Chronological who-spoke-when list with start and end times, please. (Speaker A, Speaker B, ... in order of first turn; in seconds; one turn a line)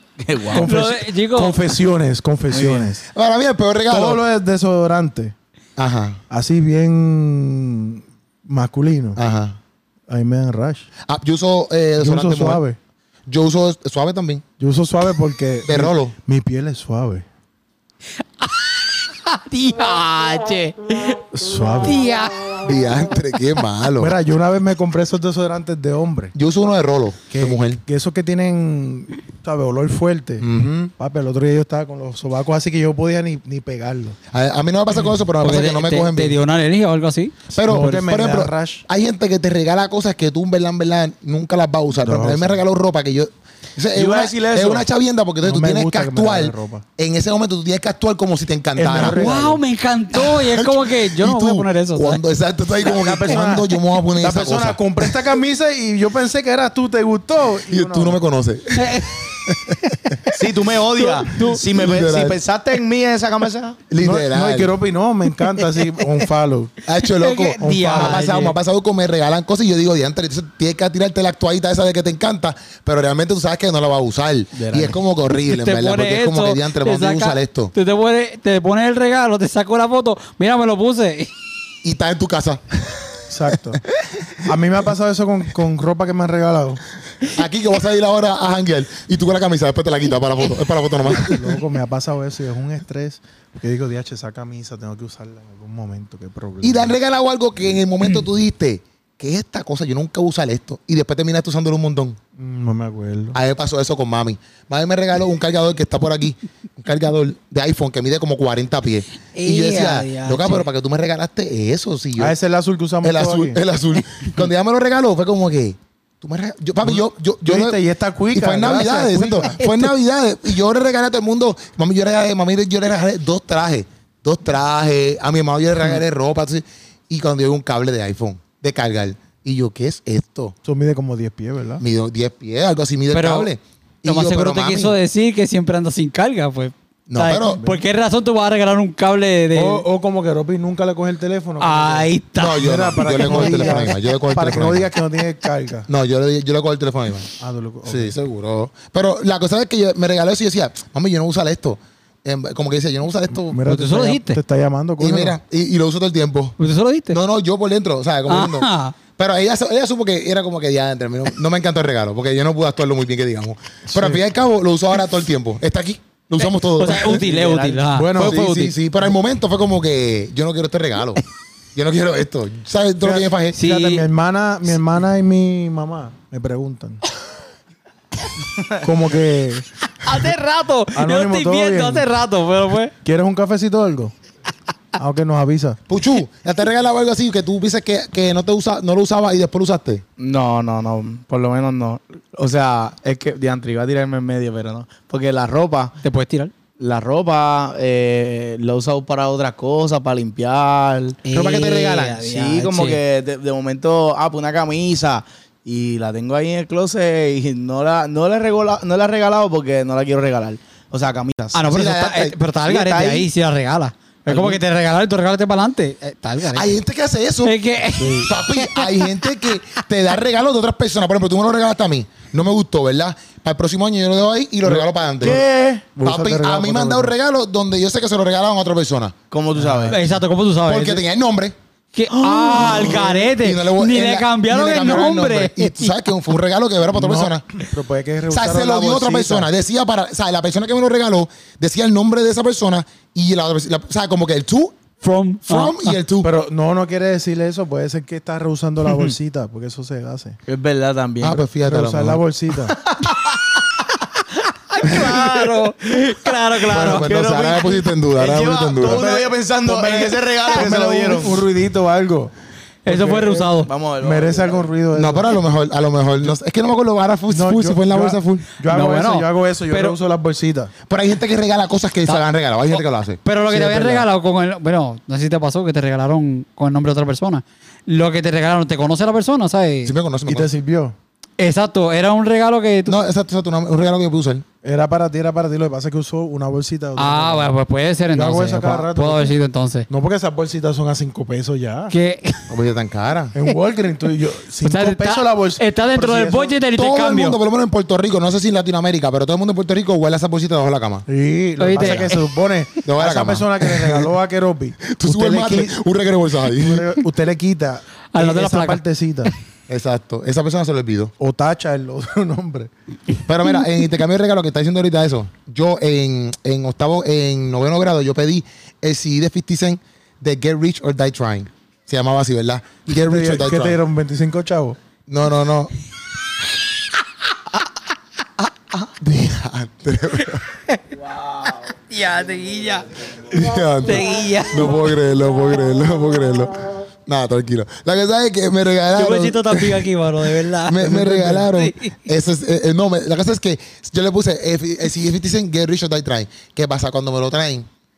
Speaker A: 0.2-0.7
Speaker B: 0.5-1.6
Speaker C: 0.5-3.0
Speaker A: 2.5-2.9
Speaker D: 3.1-4.2
Speaker C: 3.9-5.3
Speaker D: 5.8-6.2
Speaker C: 6.3-9.2
Speaker D: 9.2-9.6
Speaker C: 10.1-10.9
Speaker D: 11.1-12.6
Speaker C: 12.0-12.8
Speaker D: 13.3-14.4
Speaker C: 14.6-17.2
Speaker D: 15.6-16.1
Speaker B: 18.4-21.2
Speaker C: 21.3-22.0
Speaker B: 21.8-22.6
Speaker D: 22.6-24.1
Speaker C: 24.0-26.3
Speaker D: 26.3-27.8
Speaker C: 27.3-34.2
Speaker D: 30.4-30.7
Speaker D: 34.3-36.4
Speaker B: 35.4-37.4
Speaker D: 37.5-49.3
Speaker C: 37.5-38.8
Speaker C: 42.0-42.6
Speaker A: 43.9-44.9
Speaker C: 45.4-46.8
Speaker C: 48.8-49.6
Speaker B: 48.9-52.2
Speaker D: 50.1-55.1
Speaker C: 52.8-58.2
Speaker D: 57.7-60.2
Speaker B: 58.7-59.2
Speaker A: 60.3-63.8
Speaker B: 60.9-61.6
Speaker D: 61.6-62.4
Speaker D: 63.9-64.8
Speaker C: 64.0-66.8
Speaker D: 66.8-77.7
Speaker B: 67.0-68.5
Speaker C: 67.6-68.3
Speaker A: 74.5-75.0
Speaker B: 75.5-81.3
Speaker D: 81.8-83.5
Speaker C: 83.3-83.8
Speaker D: 84.0-84.3
Speaker C: 84.4-86.8
Speaker D: 87.2-91.6
Speaker C: 91.1-97.0
Speaker D: 96.6-102.2
Speaker C: 102.4-103.4
Speaker D: 103.3-112.3
Speaker B: 109.3-110.7
Speaker C: 112.2-113.6
Speaker D: 113.0-117.8
Speaker C: 116.8-119.6
Speaker D: 118.3-130.5
Speaker C: 130.6-131.8
Speaker D: 131.8-135.0
Speaker B: 133.1-133.5
Speaker B: 134.0-139.8
Speaker D: 137.1-137.6
Speaker C: 137.5-137.8
Speaker C: 139.5-145.9
Speaker B: 141.6-143.9
Speaker D: 142.3-144.9
Speaker D: 145.9-147.3
Speaker C: 147.4-148.2
Speaker D: 147.8-153.6
Speaker C: 153.3-155.4
Speaker B: 153.7-154.4
Speaker D: 155.0-156.6
Speaker B: 156.6-157.2
Speaker D: 157.1-167.2
Speaker B: 158.3-158.9
Speaker C: 163.9-164.2
Speaker B: 166.4-168.4
Speaker A: 166.9-168.7
Speaker C: 167.9-168.8
Speaker D: 168.2-171.2
Speaker D: 171.7-173.6
Speaker C: 173.0-177.0
Speaker B: 173.6-174.1
Speaker C: 178.8-179.7
Speaker B: 180.0-182.9
Speaker C: 180.9-182.1
Speaker C: 183.0-184.1
Speaker C: 184.9-185.8
Speaker D: 185.9-190.0
Speaker A: 190.2-195.9
Speaker B: 196.0-196.5
Speaker A: 196.8-211.6
Speaker B: 201.2-203.0
Speaker B: 211.5-216.8
Speaker D: 211.7-212.4
Speaker A: 212.6-213.3
Speaker A: 214.3-214.6
Speaker D: 216.5-225.4
Speaker B: 217.4-219.3
Speaker C: 218.0-218.3
Speaker C: 224.6-227.1
Speaker A: 225.2-225.8
Speaker D: 226.0-229.1
Speaker A: 229.3-230.0
Speaker C: 229.5-230.1
Speaker B: 229.9-231.0
Speaker D: 230.7-231.6
Speaker B: 231.9-236.0
Speaker A: 232.1-233.2
Speaker D: 232.5-237.5
Speaker C: 236.9-239.5
Speaker D: 238.3-244.9
Speaker B: 245.0-246.0
Speaker D: 245.4-246.3
Speaker C: 246.2-250.4
Speaker A: 250.4-251.4
Speaker D: 251.2-252.2
Speaker C: 251.6-252.8
Speaker A: 252.8-253.4
Speaker B: 254.7-257.2
Speaker A: 254.8-261.5
Speaker D: 256.7-259.1
Speaker C: 258.8-262.3
Speaker B: 262.8-263.7
Speaker C: 262.9-265.4
Speaker A: 263.6-264.7
Speaker D: 264.9-268.5
Speaker C: 267.3-270.7
Speaker B: 268.7-269.9
Speaker D: 270.9-273.2
Speaker B: 272.7-279.9
Speaker C: 273.5-274.0
Speaker D: 279.8-280.5
Speaker C: 280.2-280.9
Speaker B: 281.4-283.0
Speaker D: 282.9-284.4
Speaker C: 284.6-287.5
Speaker B: 287.0-289.9
Speaker C: 288.1-289.3
Speaker C: 289.9-291.9
Speaker B: 291.9-292.5
Speaker D: 292.5-293.3
Speaker C: 293.3-296.6
Speaker B: 294.6-297.4
Speaker D: 296.7-301.1
Speaker C: 301.1-305.8
Speaker B: 301.6-302.2
Speaker D: 301.7-302.1
Speaker D: 302.8-304.1
Speaker D: 304.9-307.0
Speaker C: 306.6-309.3
Speaker B: 308.1-309.3
Speaker D: 309.7-311.1
Speaker C: 311.2-312.7
Speaker D: 313.2-323.8
Speaker C: 322.9-324.8
Speaker D: 325.1-325.7
Speaker D: 329.0-330.4
Speaker B: 330.5-330.9
Speaker A: 331.2-331.6
Speaker B: 331.7-332.9
Speaker D: 333.3-339.9
Speaker B: 333.8-334.9
Speaker B: 338.9-341.9
Speaker D: 340.5-347.7